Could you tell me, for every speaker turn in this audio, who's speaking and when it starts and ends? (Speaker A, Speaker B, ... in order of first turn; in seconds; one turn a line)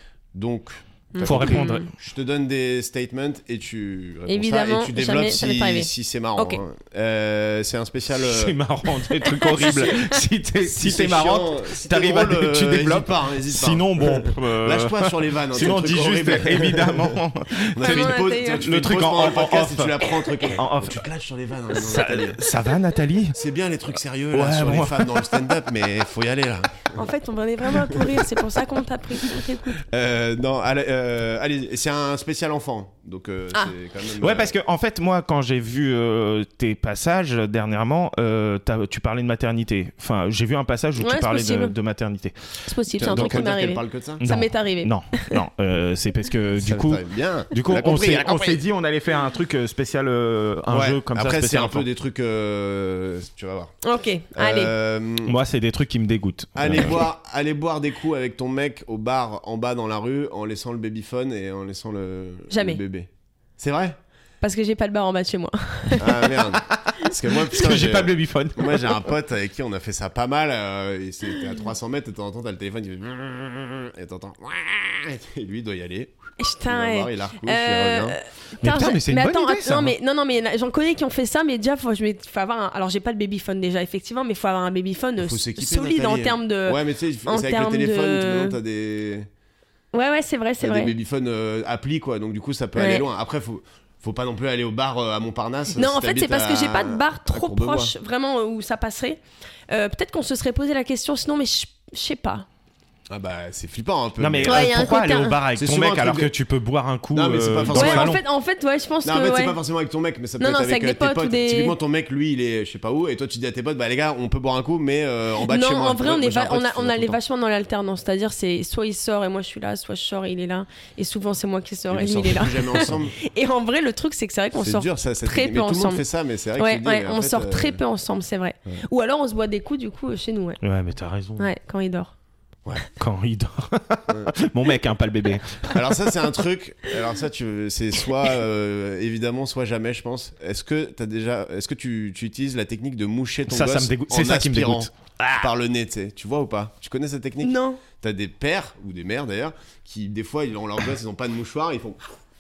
Speaker A: 0.3-8.6
Speaker B: 1.1-1.9
Speaker C: 1.2-1.9
Speaker B: 4.3-6.6
Speaker C: 8.2-21.0
Speaker B: 9.2-10.2
Speaker A: 10.6-17.2
Speaker A: 17.8-22.4
Speaker B: 17.8-18.7
Speaker C: 21.7-23.4
Speaker A: 23.4-27.1
Speaker C: 24.3-25.4
Speaker B: 26.9-29.8
Speaker A: 28.0-28.3
Speaker A: 29.8-34.5
Speaker C: 34.2-42.4
Speaker B: 41.0-41.8
Speaker B: 42.6-45.4
Speaker A: 43.0-44.2
Speaker C: 44.2-51.9
Speaker A: 46.6-48.6
Speaker A: 50.7-53.8
Speaker B: 53.8-54.7
Speaker A: 54.4-55.4
Speaker C: 55.2-57.0
Speaker A: 56.6-64.0
Speaker B: 62.5-62.8
Speaker B: 64.4-66.4
Speaker A: 66.0-76.1
Speaker C: 66.6-69.0
Speaker B: 76.4-88.6
Speaker A: 76.7-78.2
Speaker C: 78.6-79.9
Speaker A: 85.2-89.3
Speaker B: 89.9-90.9
Speaker A: 90.6-97.9
Speaker B: 92.8-93.1
Speaker B: 95.8-102.5
Speaker A: 103.1-104.9
Speaker C: 104.2-108.2
Speaker B: 104.5-105.4
Speaker A: 105.5-106.3
Speaker A: 107.1-108.2
Speaker B: 107.7-109.6
Speaker A: 109.0-117.2
Speaker B: 110.4-111.8
Speaker B: 115.4-126.0
Speaker A: 121.9-123.2
Speaker A: 124.6-127.8
Speaker B: 126.6-130.6
Speaker C: 130.6-131.5
Speaker B: 131.4-132.1
Speaker C: 133.0-135.8
Speaker A: 135.7-152.0
Speaker C: 143.5-145.4
Speaker B: 147.4-147.8